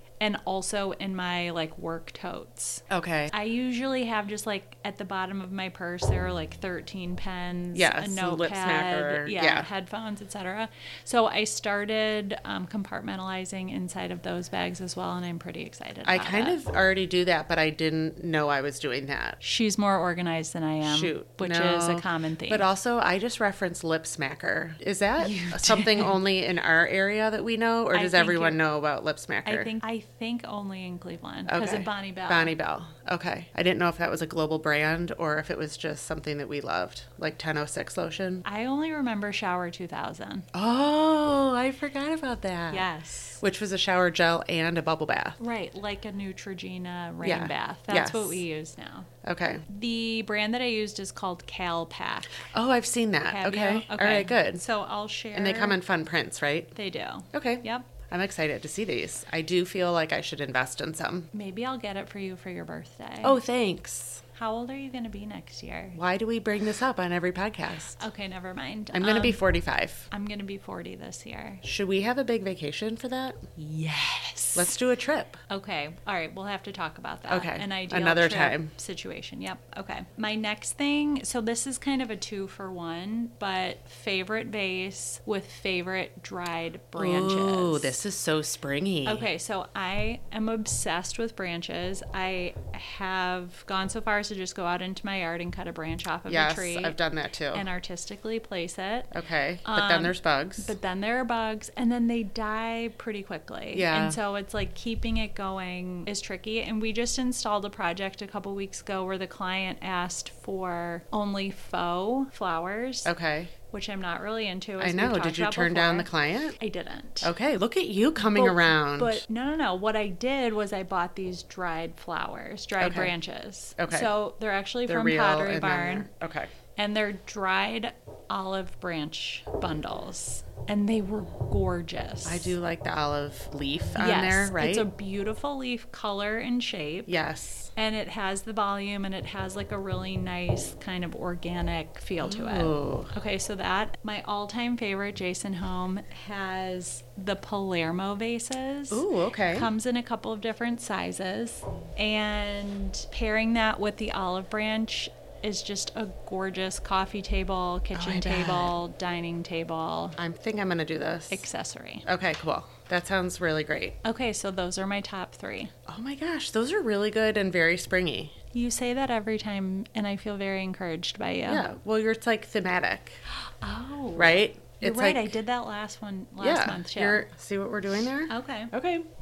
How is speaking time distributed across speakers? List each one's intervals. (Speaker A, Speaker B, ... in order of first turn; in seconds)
Speaker A: 0.2-16.6, 19.4-22.6, 25.2-26.2, 27.9-28.6, 29.4-32.5, 38.4-40.5, 42.7-43.4, 45.4-52.4, 53.2-55.8, 56.7-57.9, 61.3-63.4, 64.3-66.0, 68.0-69.4, 70.1-71.6, 73.6-74.7, 75.5-88.0, 89.0-97.0, 97.5-113.1, 113.7-117.3, 118.2-126.1, 126.8-132.6, 134.0-137.1, 137.7-160.2, 161.3-162.1, 164.0-165.7, 168.5-171.7, 173.4-177.2, 178.3-178.7
Speaker B: 2.9-3.3, 7.7-9.7, 16.0-19.4, 20.8-29.7, 31.5-38.4, 40.5-42.9, 43.4-45.4, 47.2-48.4, 49.2-49.6, 52.5-54.6, 55.3-56.7, 57.3-61.3, 63.2-64.2, 65.9-68.0, 68.9-70.1, 71.6-73.4, 74.5-75.4, 77.3-78.7, 87.0-89.3, 96.3-97.7, 99.1-100.7, 103.7-104.2, 113.0-113.5, 114.8-116.6, 117.2-119.2, 122.8-123.1, 123.8-124.1, 124.8-126.5, 132.2-134.9, 137.1-137.7, 142.2-143.1, 148.9-149.7, 157.9-158.8, 160.2-161.4, 162.1-164.0, 165.9-168.3, 171.5-173.2, 174.1-175.3, 176.4-179.0